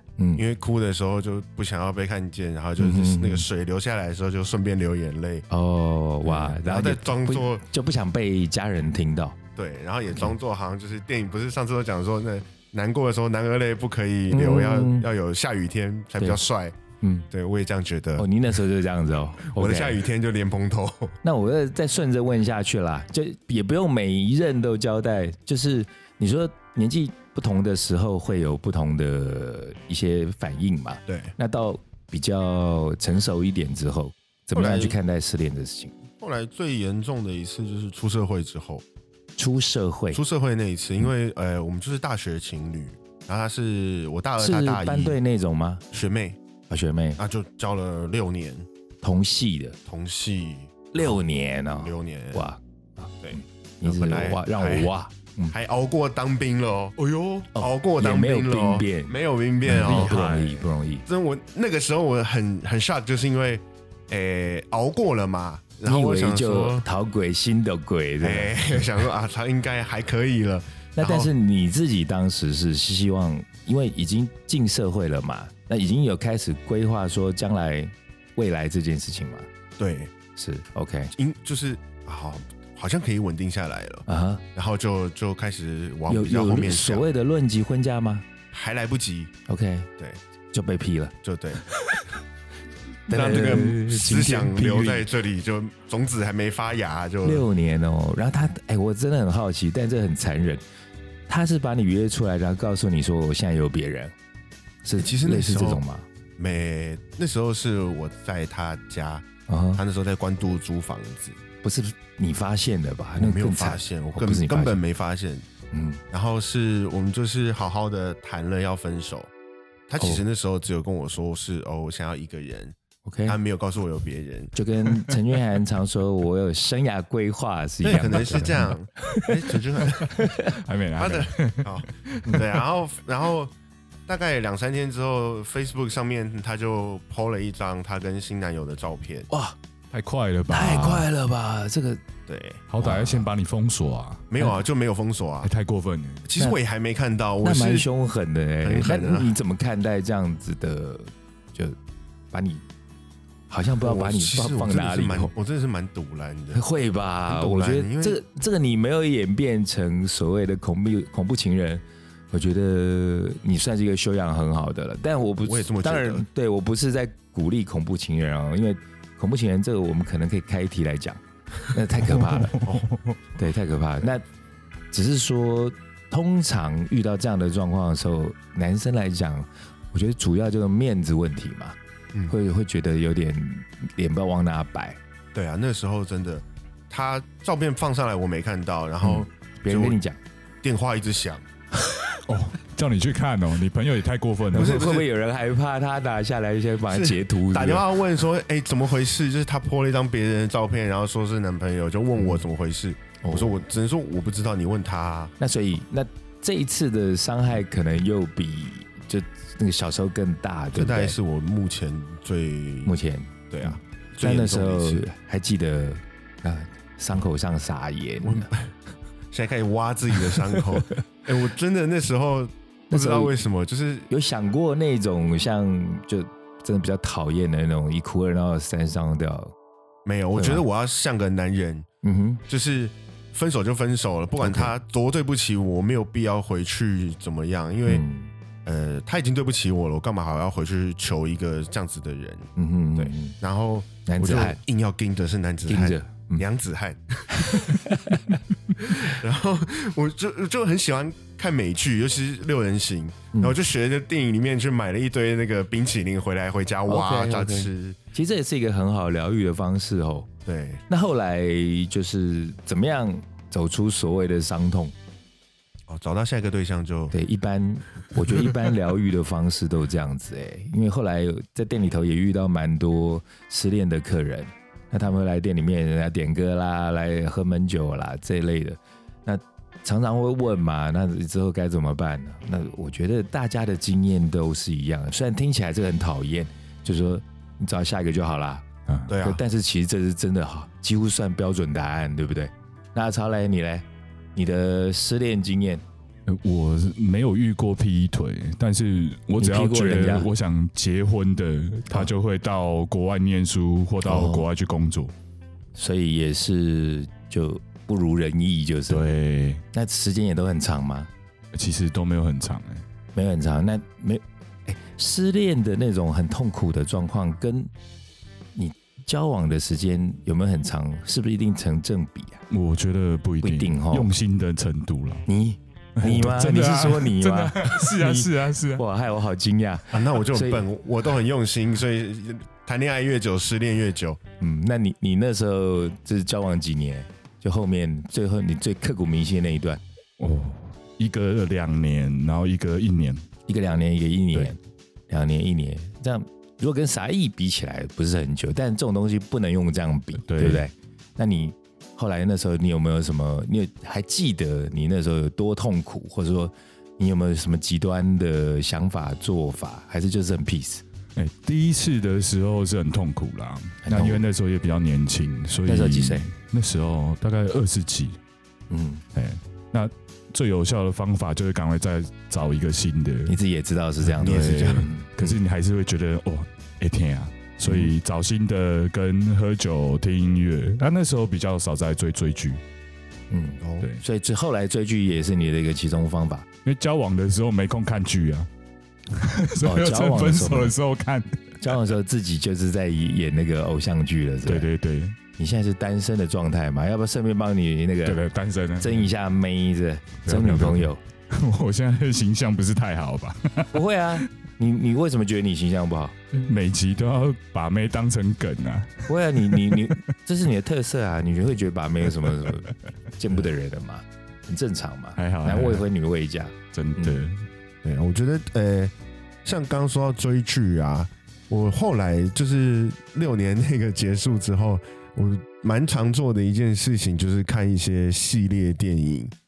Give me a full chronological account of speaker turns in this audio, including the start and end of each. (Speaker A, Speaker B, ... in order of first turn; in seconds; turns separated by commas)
Speaker A: 0.4-5.5, Speaker B: 2.8-3.5, Speaker B: 5.5-9.4, Speaker A: 6.2-7.6, Speaker A: 9.6-16.8, Speaker B: 14.3-15.1, Speaker B: 17.0-17.3, Speaker A: 17.3-18.3, Speaker B: 18.2-20.0, Speaker A: 19.5-21.2, Speaker B: 21.2-35.9, Speaker A: 31.1-31.4, Speaker A: 34.5-35.0, Speaker A: 36.2-38.8, Speaker B: 39.4-40.2, Speaker A: 40.1-45.2, Speaker B: 44.4-45.8, Speaker A: 45.9-46.4, Speaker B: 46.7-47.2, Speaker A: 47.2-48.7, Speaker B: 49.0-49.8, Speaker A: 49.9-51.2, Speaker B: 50.9-55.5, Speaker A: 51.8-52.5, Speaker A: 53.2-54.9, Speaker A: 55.5-60.4, Speaker C: 57.0-57.3, Speaker B: 57.5-59.2, Speaker B: 59.7-61.0, Speaker C: 59.7-60.6, Speaker A: 61.1-66.9, Speaker B: 65.8-68.9, Speaker A: 68.2-71.3, Speaker B: 71.0-79.5, Speaker A: 79.8-80.1, Speaker B: 80.4-81.1, Speaker A: 81.2-87.1, Speaker B: 84.1-84.4, Speaker B: 86.1-88.3, Speaker A: 88.5-89.3, Speaker B: 89.5-89.9, Speaker B: 90.5-91.2, Speaker A: 91.2-91.6, Speaker B: 93.1-95.1, Speaker A: 93.1-97.5, Speaker B: 97.2-100.6, Speaker B: 101.3-104.1, Speaker B: 104.8-106.1, Speaker A: 105.0-105.8, Speaker A: 106.4-111.4, Speaker B: 109.5-109.8, Speaker B: 111.6-114.8, Speaker A: 113.2-115.5, Speaker B: 115.7-116.0, Speaker A: 116.1-119.3, Speaker A: 119.9-124.5, Speaker B: 120.0-120.2, Speaker B: 123.0-123.4, Speaker B: 124.5-129.3, Speaker A: 127.8-130.2, Speaker B: 130.1-130.5, Speaker C: 130.5-132.6, Speaker A: 131.0-133.5, Speaker A: 134.1-139.3, Speaker B: 139.3-139.6, Speaker C: 139.9-141.1, Speaker B: 140.5-142.0, Speaker A: 142.3-142.6, Speaker C: 142.7-144.3, Speaker B: 142.8-143.3, Speaker A: 144.3-145.5, Speaker C: 145.4-146.2, Speaker A: 146.2-147.9, Speaker B: 147.4-151.8, Speaker A: 148.6-149.3, Speaker B: 152.3-152.6, Speaker B: 153.5-155.3, Speaker A: 153.8-156.6, Speaker B: 156.5-172.6, Speaker A: 157.3-158.2, Speaker A: 165.4-166.3, Speaker C: 172.1-173.1, Speaker B: 173.4-174.2, Speaker B: 174.9-181.8, Speaker B: 182.3-185.0, Speaker A: 185.3-190.0, Speaker B: 189.0-190.2, Speaker A: 190.6-191.4, Speaker C: 192.3-194.8, Speaker A: 194.5-195.1, Speaker B: 194.5-197.9, Speaker A: 196.9-205.3, Speaker B: 203.2-203.6, Speaker B: 205.4-211.2, Speaker A: 210.7-212.9, Speaker B: 212.8-218.5, Speaker A: 213.5-215.1, Speaker A: 218.2-218.8, Speaker A: 219.3-224.1, Speaker B: 222.9-223.3, Speaker B: 224.1-229.5, Speaker A: 230.1-231.9, Speaker B: 230.4-230.6, Speaker B: 232.0-232.4, Speaker A: 232.5-238.0, Speaker B: 234.4-234.7, Speaker B: 237.9-238.3, Speaker A: 238.7-247.9, Speaker B: 242.6-243.4, Speaker B: 244.1-244.6, Speaker B: 245.7-246.4, Speaker B: 247.3-248.4, Speaker A: 248.8-258.0, Speaker B: 256.9-260.3, Speaker A: 260.5-260.8, Speaker B: 260.9-264.9, Speaker A: 265.9-267.1, Speaker B: 267.1-288.6, Speaker C: 288.9-289.1, Speaker A: 289.1-289.4, Speaker B: 289.2-295.8, Speaker C: 296.3-305.1, Speaker B: 299.4-300.3, Speaker B: 304.1-304.5, Speaker B: 305.8-309.1, Speaker C: 308.9-309.6, Speaker B: 309.7-311.1, Speaker C: 311.5-312.9, Speaker B: 313.1-317.7, Speaker B: 318.6-322.4, Speaker C: 322.5-325.3, Speaker B: 323.4-324.1, Speaker B: 325.3-330.7, Speaker C: 326.0-328.8, Speaker A: 329.9-334.2, Speaker B: 334.4-339.8, Speaker C: 340.2-343.3, Speaker B: 343.5-344.6, Speaker B: 345.1-360.8, Speaker C: 350.3-350.7, Speaker C: 361.2-368.2, Speaker B: 363.8-364.2, Speaker B: 365.7-366.3, Speaker B: 368.7-369.0, Speaker C: 369.1-373.4, Speaker B: 373.3-375.3, Speaker C: 374.1-382.6, Speaker A: 374.2-374.9, Speaker B: 377.6-377.9, Speaker B: 383.3-386.5, Speaker A: 383.6-383.9, Speaker C: 386.6-388.5, Speaker C: 389.1-391.9, Speaker B: 389.6-390.8, Speaker B: 391.6-394.7, Speaker C: 394.5-395.2, Speaker B: 395.4-398.2, Speaker C: 398.1-399.1, Speaker B: 398.8-401.0, Speaker C: 400.2-404.2, Speaker B: 403.7-406.2, Speaker C: 406.3-410.0, Speaker B: 409.1-417.2, Speaker C: 415.2-415.9, Speaker C: 416.7-417.5, Speaker A: 417.8-429.3